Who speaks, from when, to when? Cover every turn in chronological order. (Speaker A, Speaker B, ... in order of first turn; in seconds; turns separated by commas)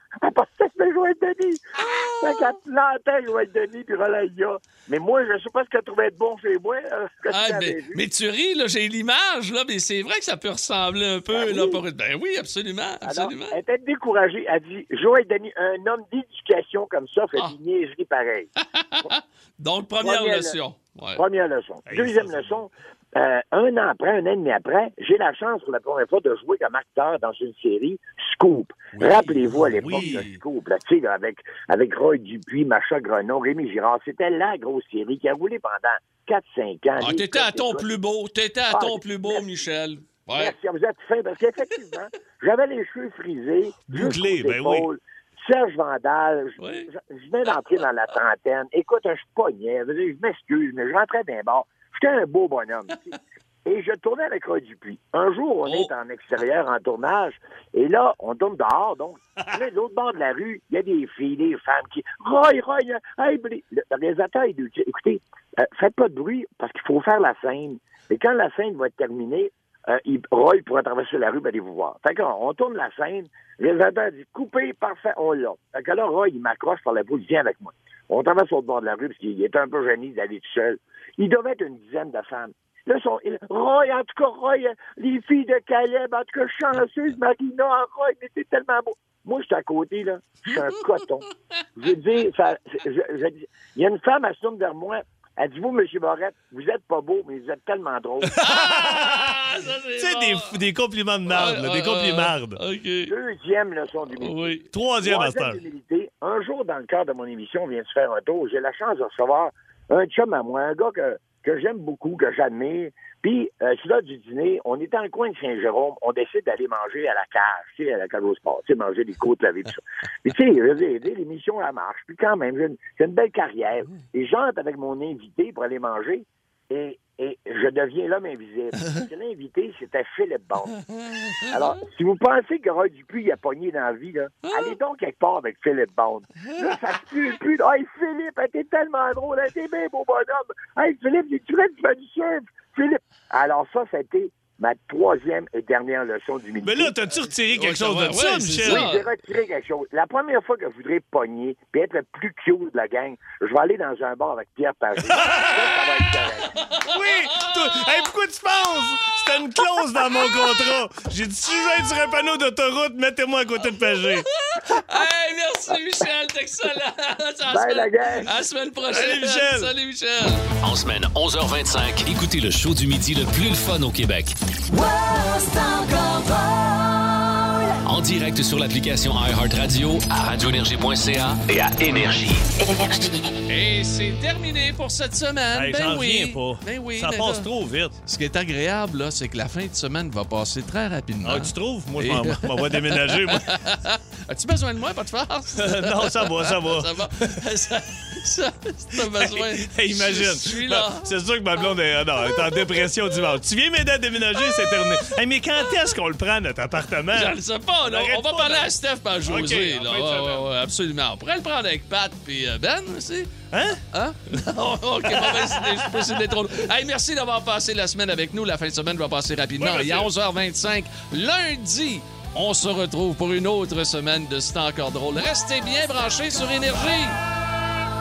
Speaker A: 0.2-8.0, Speaker B: 7.3-13.6, Speaker A: 11.3-11.8, Speaker A: 13.0-18.5, Speaker B: 18.6-21.2, Speaker A: 20.0-20.6, Speaker A: 21.1-37.9, Speaker C: 21.9-22.6, Speaker B: 28.9-30.4, Speaker C: 29.8-30.2, Speaker B: 37.0-40.5, Speaker A: 38.7-39.5, Speaker A: 40.3-91.2, Speaker C: 43.9-44.9, Speaker B: 46.6-46.9, Speaker B: 55.6-55.9, Speaker A: 91.8-98.4, Speaker C: 98.3-99.4, Speaker B: 98.4-100.6, Speaker C: 100.0-102.6, Speaker B: 101.3-103.1, Speaker A: 103.0-130.7, Speaker B: 104.2-104.6, Speaker C: 104.7-105.6, Speaker A: 131.5-146.9, Speaker B: 134.4-134.7, Speaker C: 146.6-148.9, Speaker B: 147.5-149.0, Speaker A: 148.6-156.5, Speaker C: 155.2-155.7, Speaker B: 156.5-157.8, Speaker C: 156.9-164.3, Speaker B: 164.0-170.5, Speaker A: 167.5-168.3, Speaker C: 168.9-169.7, Speaker D: 170.6-174.3, Speaker E: 174.7-177.8, Speaker D: 177.8-182.4, Speaker E: 182.6-183.2, Speaker B: 183.5-187.5, Speaker C: 185.5-187.9, Speaker B: 188.0-201.1, Speaker C: 191.2-193.6, Speaker C: 195.5-197.4, Speaker C: 198.9-208.7, Speaker B: 207.1-213.3, Speaker C: 209.2-210.5, Speaker C: 213.5-213.8, Speaker B: 213.9-227.2, Speaker C: 214.3-216.0, Speaker C: 219.6-220.1